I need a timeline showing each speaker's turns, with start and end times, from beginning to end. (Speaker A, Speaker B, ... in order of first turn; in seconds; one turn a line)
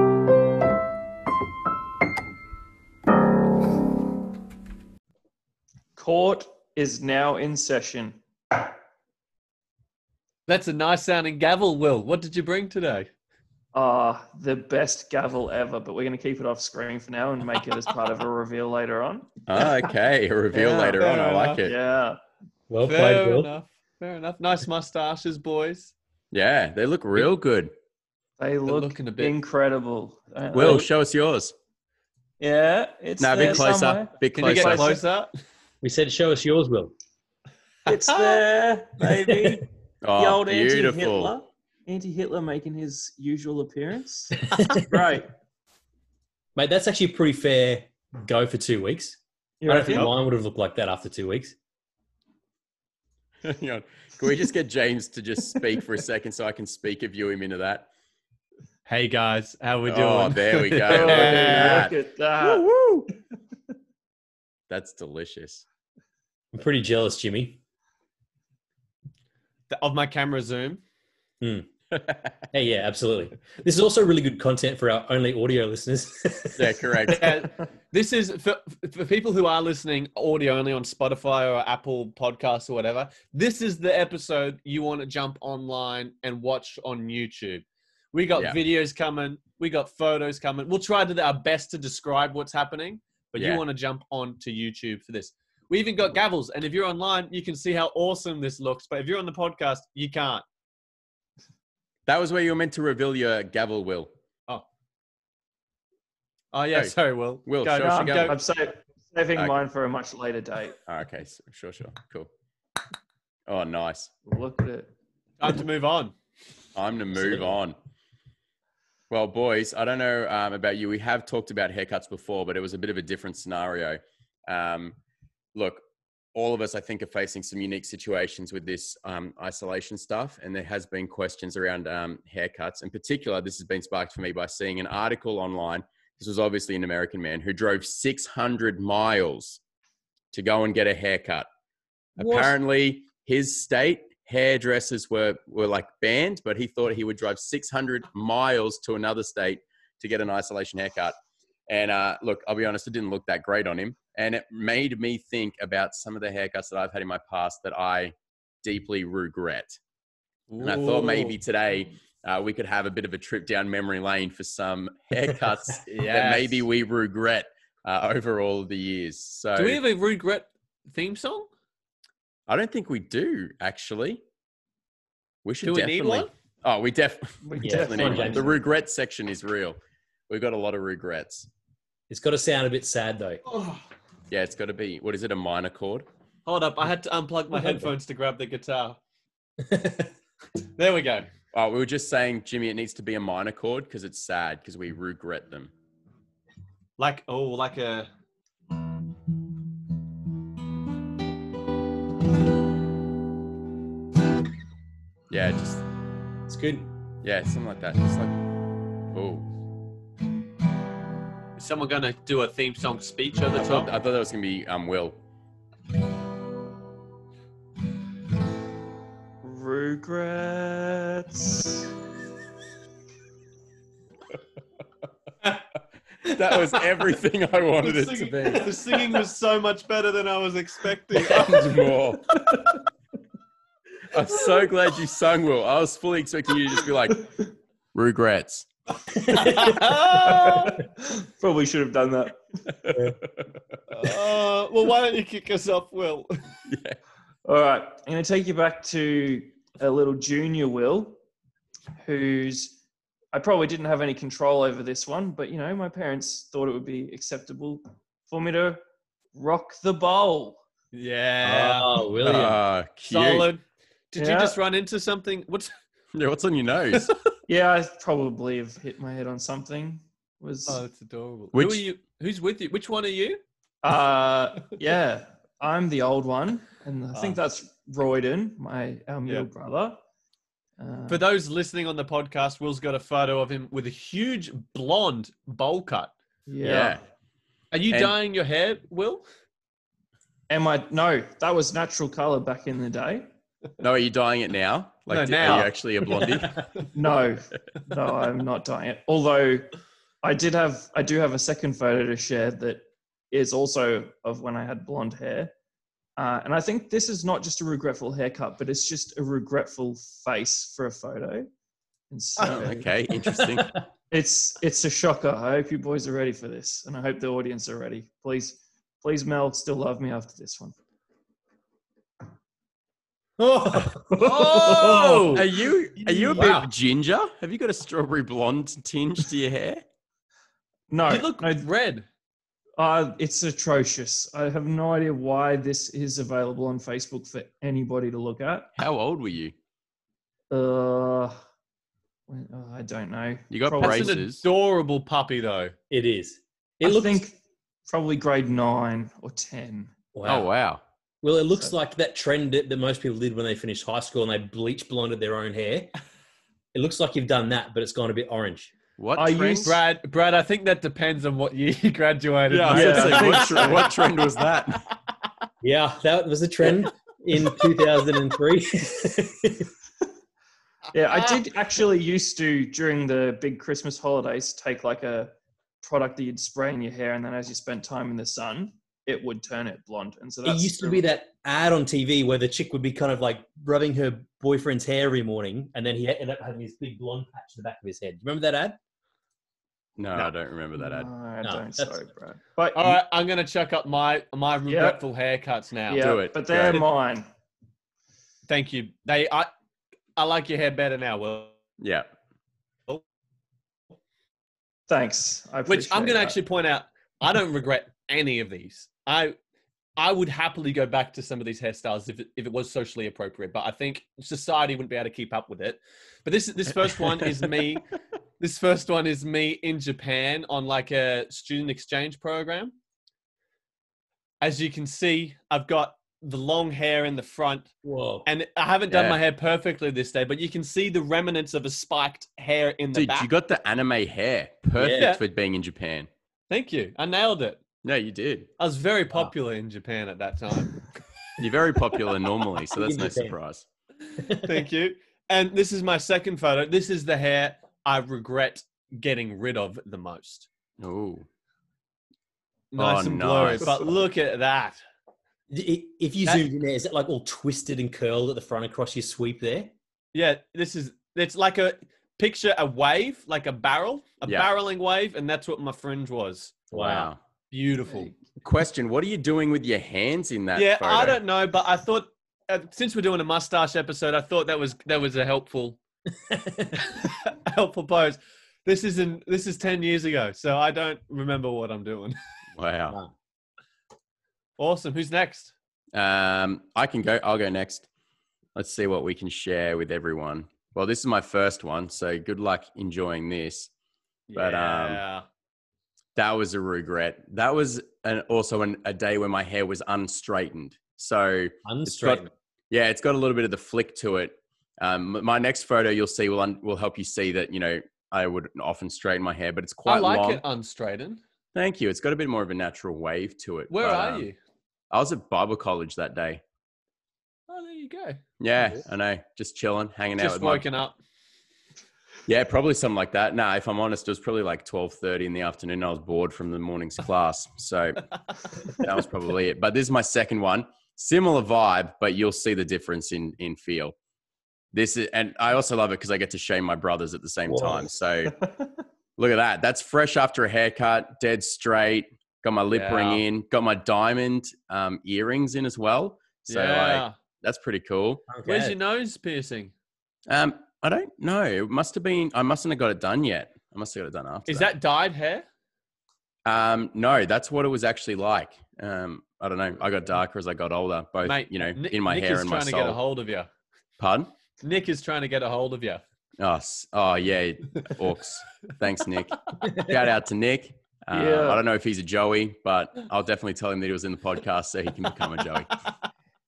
Speaker A: 6.0-8.7
Speaker B: 10.5-13.1
Speaker A: 13.7-19.3
Speaker C: 19.5-21.8
Speaker A: 20.5-21.1
Speaker B: 21.0-21.6
Speaker A: 21.6-22.2
Speaker D: 22.7-23.5
Speaker B: 22.8-25.9
Speaker C: 26.3-27.7
Speaker A: 28.4-30.9
Speaker B: 28.7-29.4
Speaker C: 30.5-31.6
Speaker A: 32.4-35.0
Speaker C: 33.2-34.9
Speaker B: 34.3-35.3
Speaker D: 35.8-36.9
Speaker A: 37.9-45.3
Speaker B: 37.9-38.4
Speaker C: 40.0-41.4
Speaker D: 44.5-44.9
Speaker D: 46.6-51.6
Speaker A: 49.6-50.1
Speaker C: 53.4-57.9
Speaker B: 58.9-61.9
Speaker C: 59.9-62.7
Speaker A: 60.9-63.1
Speaker C: 64.7-65.6
Speaker D: 66.5-67.6
Speaker B: 69.7-70.8
Speaker D: 71.4-71.7
Speaker C: 71.9-72.3
Speaker D: 72.5-77.1
Speaker C: 76.6-77.4
Speaker B: 77.1-100.4
Speaker C: 93.4-93.6
Speaker C: 102.1-104.1
Speaker B: 106.5-108.4
Speaker C: 106.7-108.3
Speaker A: 107.8-110.8
Speaker C: 110.9-112.3
Speaker C: 113.5-114.1
Speaker A: 114.3-114.9
Speaker B: 115.4-116.1
Speaker C: 116.8-117.8
Speaker C: 119.1-125.0
Speaker C: 125.5-125.8
Speaker C: 126.3-139.6
Speaker C: 140.3-141.5
Speaker C: 142.2-151.2
Speaker C: 151.7-159.8
Speaker B: 160.5-161.4
Speaker C: 160.6-169.8
Speaker B: 165.8-166.7
Speaker B: 169.6-171.5
Speaker C: 172.5-174.2
Speaker C: 175.4-181.5
Speaker B: 175.6-176.3
Speaker A: 177.4-178.6
Speaker D: 177.6-178.5
Speaker D: 182.1-183.4
Speaker B: 183.5-183.8
Speaker C: 184.3-186.1
Speaker B: 186.5-189.0
Speaker D: 187.6-187.9
Speaker D: 189.6-190.1
Speaker B: 190.8-191.3
Speaker C: 191.5-195.7
Speaker B: 197.0-198.1
Speaker C: 205.3-205.8
Speaker D: 206.5-206.9
Speaker C: 207.2-208.4
Speaker C: 209.1-209.5
Speaker B: 211.6-213.9
Speaker C: 213.5-215.2
Speaker A: 219.4-221.9
Speaker C: 226.2-228.8
Speaker B: 227.8-231.7
Speaker C: 231.2-232.6
Speaker C: 234.1-237.3
Speaker C: 237.9-238.7
Speaker B: 239.2-240.8
Speaker A: 240.1-242.4
Speaker C: 242.8-243.5
Speaker B: 243.9-246.3
Speaker C: 246.7-247.0
Speaker A: 247.4-251.2
Speaker A: 252.0-252.8
Speaker A: 253.3-258.8
Speaker A: 259.3-260.6
Speaker B: 260.9-262.0
Speaker D: 261.4-262.6
Speaker C: 262.2-263.5
Speaker B: 263.1-265.7
Speaker A: 264.2-264.6
Speaker C: 266.1-267.1
Speaker A: 267.5-270.8
Speaker B: 270.7-273.4
Speaker C: 271.5-271.9
Speaker A: 273.8-280.0
Speaker B: 277.1-277.4
Speaker A: 280.8-281.2
Speaker B: 281.1-286.1
Speaker A: 286.5-287.0
Speaker C: 286.6-287.0
Speaker B: 287.7-289.2
Speaker A: 290.5-293.3
Speaker C: 293.8-296.7
Speaker B: 295.1-295.7
Speaker A: 296.9-299.7
Speaker A: 300.2-305.5
Speaker A: 306.2-311.5
Speaker A: 312.1-312.9
Speaker C: 312.4-313.8
Speaker D: 312.4-312.6
Speaker D: 313.4-313.8
Speaker A: 314.1-320.7
Speaker D: 323.4-325.4
Speaker A: 324.1-325.2
Speaker B: 324.1-325.4
Speaker C: 324.5-329.8
Speaker D: 326.1-326.7
Speaker A: 330.9-331.7
Speaker B: 331.0-332.1
Speaker A: 332.8-338.7
Speaker C: 338.8-339.5
Speaker A: 340.5-341.4
Speaker A: 342.3-344.2
Speaker C: 343.5-344.4
Speaker B: 343.8-345.8
Speaker D: 345.9-347.2
Speaker A: 346.8-349.9
Speaker D: 350.1-350.5
Speaker C: 350.2-350.8
Speaker D: 351.2-355.9
Speaker D: 356.7-358.8
Speaker C: 359.0-359.8
Speaker A: 359.1-359.8
Speaker B: 359.6-364.1
Speaker C: 362.5-364.9
Speaker A: 362.7-363.9
Speaker D: 365.6-369.7
Speaker A: 370.9-381.0
Speaker D: 380.4-388.8
Speaker C: 390.0-391.1
Speaker A: 390.2-393.0
Speaker D: 391.4-392.0
Speaker B: 392.8-396.1
Speaker A: 394.7-395.0
Speaker A: 395.9-397.3
Speaker C: 396.0-396.9
Speaker B: 398.5-399.5
Speaker B: 400.2-401.6
Speaker C: 401.8-402.1
Speaker A: 404.9-406.4
Speaker B: 405.7-409.4
Speaker B: 410.0-417.8
Speaker B: 418.4-422.7
Speaker B: 424.4-427.7
Speaker D: 427.8-428.3
Speaker B: 428.2-433.3
Speaker C: 428.9-429.2
Speaker C: 432.9-436.1
Speaker D: 434.8-435.1
Speaker B: 434.9-435.2
Speaker B: 436.5-437.6
Speaker C: 437.8-438.5
Speaker B: 438.6-440.9
Speaker C: 441.4-443.6
Speaker D: 442.7-443.4
Speaker D: 444.2-444.6
Speaker B: 444.2-450.5
Speaker C: 450.8-451.3
Speaker B: 452.7-454.8
Speaker C: 452.8-453.9
Speaker D: 455.5-459.7
Speaker B: 460.1-466.6
Speaker C: 466.7-467.2
Speaker D: 466.7-467.1
Speaker B: 467.5-468.1
Speaker C: 468.4-471.2
Speaker B: 470.6-475.8
Speaker D: 476.3-476.9
Speaker B: 476.8-482.2
Speaker C: 482.6-483.0
Speaker B: 484.6-485.5
Speaker C: 485.9-487.9
Speaker C: 488.6-493.7
Speaker B: 494.3-495.2
Speaker C: 494.4-495.0
Speaker C: 496.2-510.4
Speaker D: 501.6-502.3
Speaker B: 509.9-511.2
Speaker C: 511.6-514.3
Speaker B: 513.7-514.4
Speaker C: 514.9-516.4
Speaker B: 517.5-518.2
Speaker C: 518.4-520.6
Speaker B: 520.2-521.0
Speaker C: 522.3-534.0
Speaker C: 534.7-538.4
Speaker D: 537.5-537.8
Speaker C: 539.2-548.2
Speaker B: 542.7-543.2
Speaker B: 546.5-547.2
Speaker D: 548.3-548.8
Speaker B: 548.5-549.7
Speaker C: 550.3-554.7
Speaker B: 554.5-555.5
Speaker C: 556.5-563.0
Speaker B: 561.2-563.5
Speaker C: 564.0-564.3
Speaker B: 564.6-566.0
Speaker C: 566.4-575.8
Speaker A: 571.1-571.6